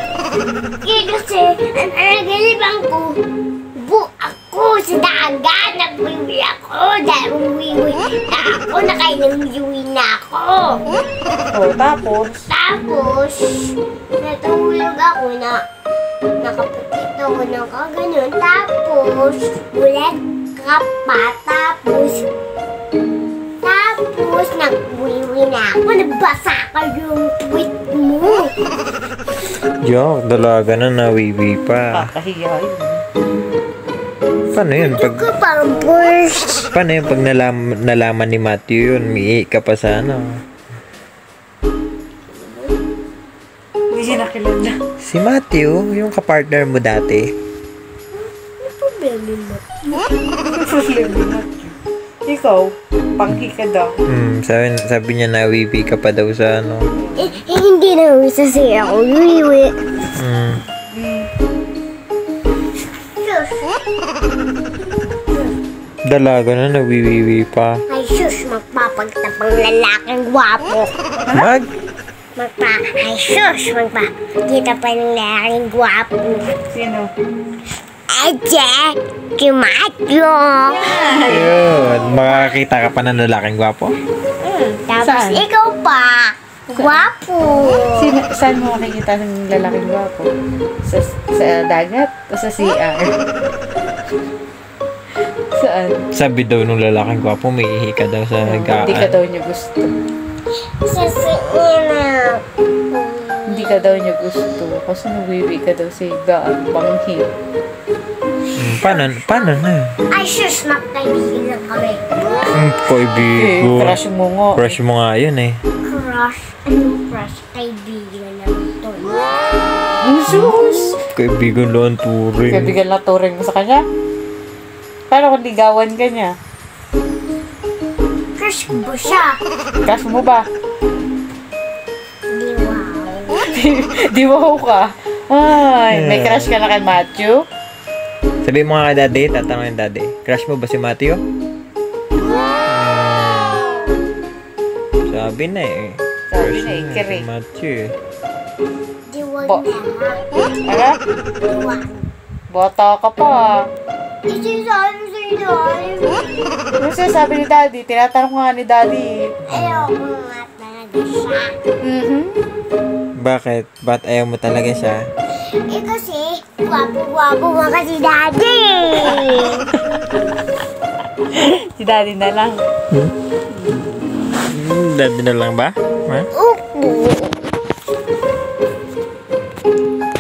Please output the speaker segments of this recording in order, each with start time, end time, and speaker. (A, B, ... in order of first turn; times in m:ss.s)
0:00.8-0:03.2 A
0:03.8-0:10.8 A
0:11.5-0:12.5 B
0:12.5-0:15.6 A
0:16.4-0:22.3 A
0:23.6-0:28.5 A
0:29.8-0:32.1 C
0:31.9-0:33.0 B
0:34.5-0:35.3 C
0:34.7-0:36.7 A
0:36.7-0:40.4 C
0:42.4-0:42.7 A
0:43.9-0:44.8 B
0:45.0-0:47.3 C
0:48.2-0:49.8 A
0:50.5-0:54.0 B
0:54.1-0:56.9 C
0:56.9-0:57.4 B
0:57.2-0:59.8 A
1:00.2-1:00.6 C
1:00.9-1:01.3 B
1:03.1-1:03.7 A
1:06.0-1:07.8 C
1:07.9-1:10.9 A
1:11.3-1:11.7 C
1:12.4-1:16.5 A
1:16.7-1:17.1 B
1:18.1-1:21.3 A
1:20.9-1:21.4 B
1:21.1-1:24.0 C
1:22.1-1:22.6 A
1:24.4-1:28.1 A
1:25.0-1:25.4 B
1:26.7-1:27.0 B
1:27.9-1:30.3 B
1:30.8-1:33.1 B
1:35.6-1:36.1 B
1:36.1-1:39.2 C
1:38.4-1:39.9 B
1:40.8-1:44.2 A
1:43.5-1:47.3 B
1:48.6-1:49.9 C
1:48.6-1:49.6 A
1:50.1-1:52.6 A
1:52.5-1:54.0 C
1:53.2-1:54.8 B
1:54.5-1:55.6 C
1:55.8-1:59.3 A
2:00.0-2:01.0 B
2:00.0-2:01.0 A
2:01.1-2:02.8 C
2:02.5-2:03.8 B
2:05.1-2:06.3 B
2:08.4-2:09.4 A
2:09.9-2:10.5 B
2:12.3-2:13.6 A
2:13.5-2:17.4 B
2:15.9-2:16.5 C
2:18.4-2:21.2 C
2:22.7-2:23.8 C
2:25.0-2:28.0 C
2:26.3-2:27.3 B
2:29.1-2:30.2 A
2:30.7-2:31.0 B
2:31.4-2:32.1 A
2:32.5-2:33.6 B
2:34.3-2:36.6 A
2:36.8-2:39.4 B
2:39.5-2:41.6 A
2:39.5-2:39.9 C
2:41.8-2:42.4 B
2:43.2-2:45.0 C
2:45.5-2:49.7 A
2:51.3-2:52.6 B
2:53.6-2:56.3 C
2:56.3-2:57.5 A